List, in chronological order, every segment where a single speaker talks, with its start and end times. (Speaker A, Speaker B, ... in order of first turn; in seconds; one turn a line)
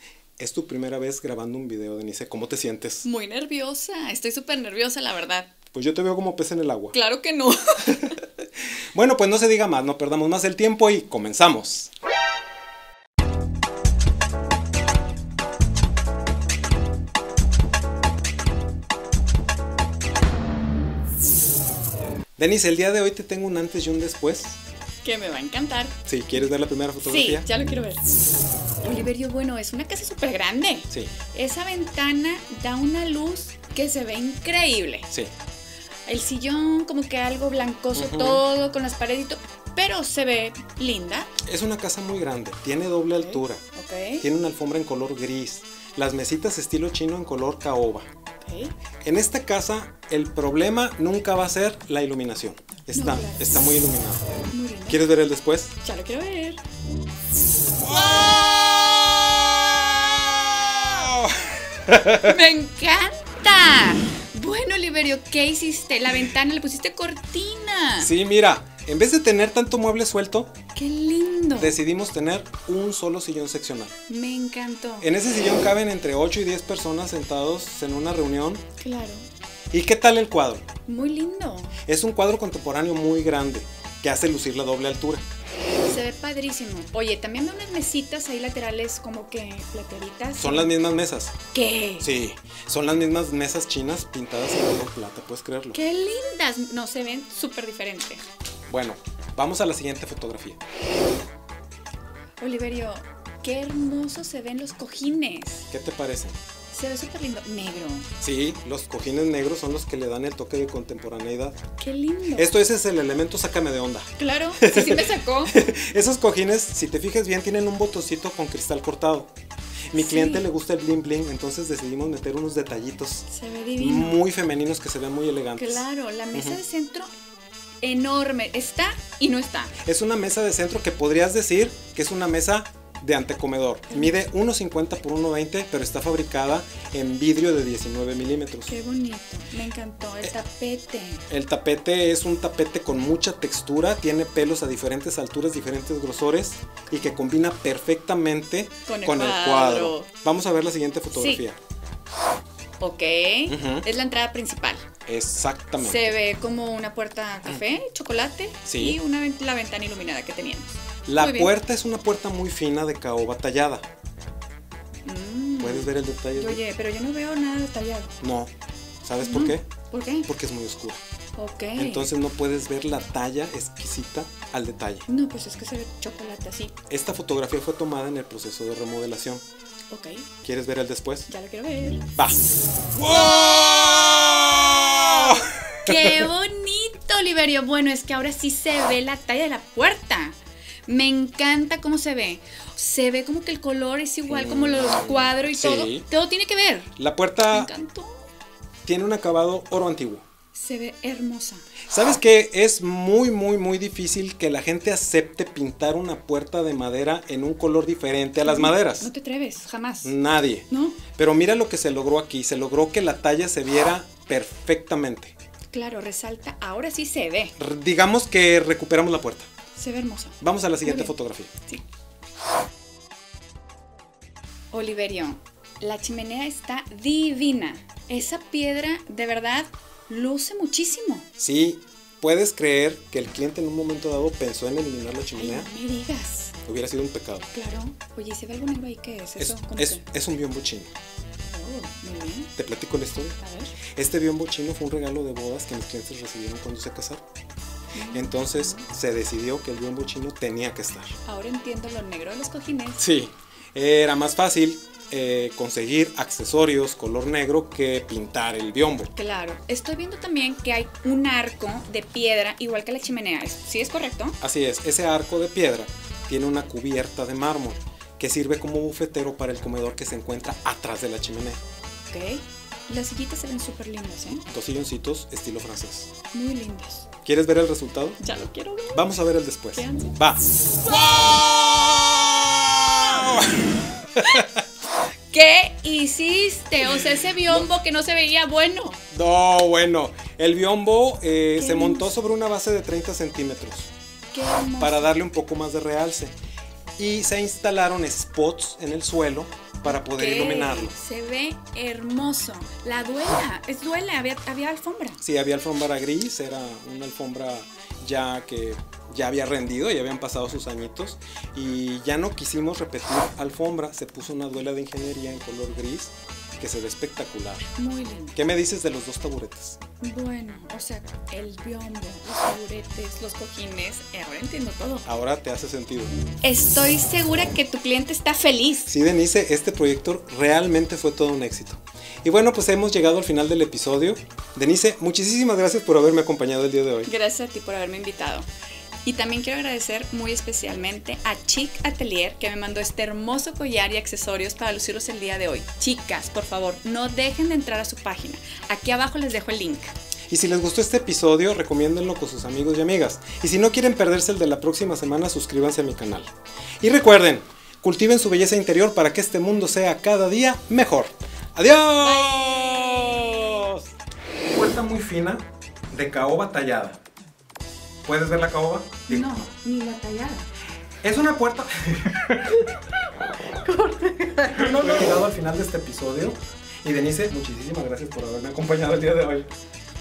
Speaker A: 0.4-3.1
Speaker B: 3.0-5.5
Speaker A: 5.7-7.0
Speaker B: 6.9-8.2
Speaker A: 8.9-11.9
Speaker A: 22.4-24.6
Speaker B: 25.0-26.4
Speaker A: 26.1-27.4
Speaker B: 27.0-28.1
Speaker B: 28.8-35.1
Speaker B: 36.0-41.3
Speaker A: 37.9-38.4
Speaker A: 41.4-43.6
Speaker B: 43.2-44.2
Speaker A: 44.2-48.1
Speaker B: 48.4-48.7
Speaker A: 49.0-54.3
Speaker B: 52.9-53.6
Speaker B: 54.5-55.0
Speaker A: 54.9-55.7
Speaker B: 55.8-56.6
Speaker A: 57.8-62.4
Speaker B: 57.8-58.5
Speaker B: 60.7-60.9
Speaker B: 62.2-68.1
Speaker A: 68.0-70.5
Speaker B: 70.7-71.8
Speaker A: 71.5-73.9
Speaker B: 74.1-75.1
Speaker A: 75.0-78.6
Speaker B: 78.8-79.3
Speaker A: 79.7-80.6
Speaker B: 80.9-81.8
Speaker A: 81.8-85.2
Speaker B: 85.8-90.7
Speaker A: 90.4-91.3
Speaker B: 91.5-92.0
Speaker A: 92.0-95.8
Speaker B: 95.7-98.2
Speaker A: 98.7-100.6
Speaker B: 102.4-105.7
Speaker A: 105.7-106.4
Speaker B: 106.7-108.1
Speaker A: 108.2-111.6
Speaker B: 111.8-112.5
Speaker A: 112.3-119.3
Speaker B: 114.2-115.5
Speaker A: 119.9-123.2
Speaker B: 119.9-120.4
Speaker B: 123.3-124.2
Speaker A: 123.8-126.6
Speaker B: 125.5-127.1
Speaker B: 127.8-129.7
Speaker A: 129.8-138.8
Speaker B: 133.9-134.1
Speaker B: 138.7-141.2
Speaker A: 141.3-151.6
Speaker B: 148.9-150.1
Speaker B: 151.1-151.4
Speaker B: 152.8-154.8
Speaker A: 153.5-153.8
Speaker A: 155.1-156.2
Speaker B: 155.8-161.5
Speaker A: 158.6-159.0
Speaker A: 161.1-163.8
Speaker B: 165.0-168.1
Speaker A: 165.6-166.6
Speaker A: 168.2-168.5
Speaker A: 169.0-169.7
Speaker B: 169.2-170.3
Speaker A: 170.2-171.0
Speaker B: 171.4-172.1
Speaker A: 171.8-175.1
Speaker B: 175.1-176.7
Speaker A: 176.9-179.4
Speaker B: 179.9-180.3
Speaker A: 180.4-181.3
Speaker B: 181.3-182.1
Speaker A: 182.9-186.3
Speaker B: 183.0-184.0
Speaker B: 184.7-196.9
Speaker A: 194.3-196.0
Speaker A: 197.0-197.7
Speaker B: 197.5-198.3
Speaker A: 198.8-200.2
Speaker B: 200.5-201.6
Speaker A: 201.9-209.1
Speaker B: 208.4-210.1
Speaker A: 210.0-215.3
Speaker B: 210.7-211.0
Speaker B: 215.7-217.5
Speaker A: 217.6-219.5
Speaker B: 219.8-221.1
Speaker A: 220.4-221.5
Speaker B: 224.7-231.3
Speaker A: 231.4-235.7
Speaker B: 235.3-236.5
Speaker A: 236.7-237.5
Speaker B: 237.5-240.0
Speaker A: 239.4-240.9
Speaker B: 241.5-242.5
Speaker A: 242.6-247.2
Speaker B: 243.4-243.7
Speaker B: 247.9-248.8
Speaker A: 248.1-251.2
Speaker B: 251.2-253.0
Speaker A: 253.0-259.1
Speaker B: 259.1-264.4
Speaker A: 264.4-271.6
Speaker B: 272.1-274.4
Speaker A: 274.4-276.1
Speaker B: 276.3-277.1
Speaker A: 277.2-278.2
Speaker B: 278.2-279.0
Speaker A: 278.9-284.6
Speaker B: 279.7-280.2
Speaker B: 280.8-281.2
Speaker B: 285.3-289.0
Speaker A: 289.1-293.9
Speaker B: 291.6-292.1
Speaker B: 294.3-295.1
Speaker A: 294.8-296.3
Speaker A: 297.0-300.9
Speaker B: 299.8-305.2
Speaker A: 305.2-317.7
Speaker B: 317.8-318.4
Speaker A: 318.3-319.8
Speaker B: 320.0-325.1
Speaker A: 325.1-326.1
Speaker B: 326.4-328.9
Speaker A: 328.9-337.1
Speaker B: 337.1-338.5
Speaker B: 339.0-349.9
Speaker A: 350.3-363.9
Speaker B: 362.0-363.8
Speaker A: 364.5-367.0
Speaker A: 368.0-369.5
Speaker B: 369.1-370.5
Speaker A: 371.0-372.6
Speaker B: 373.5-375.1
Speaker A: 374.4-379.5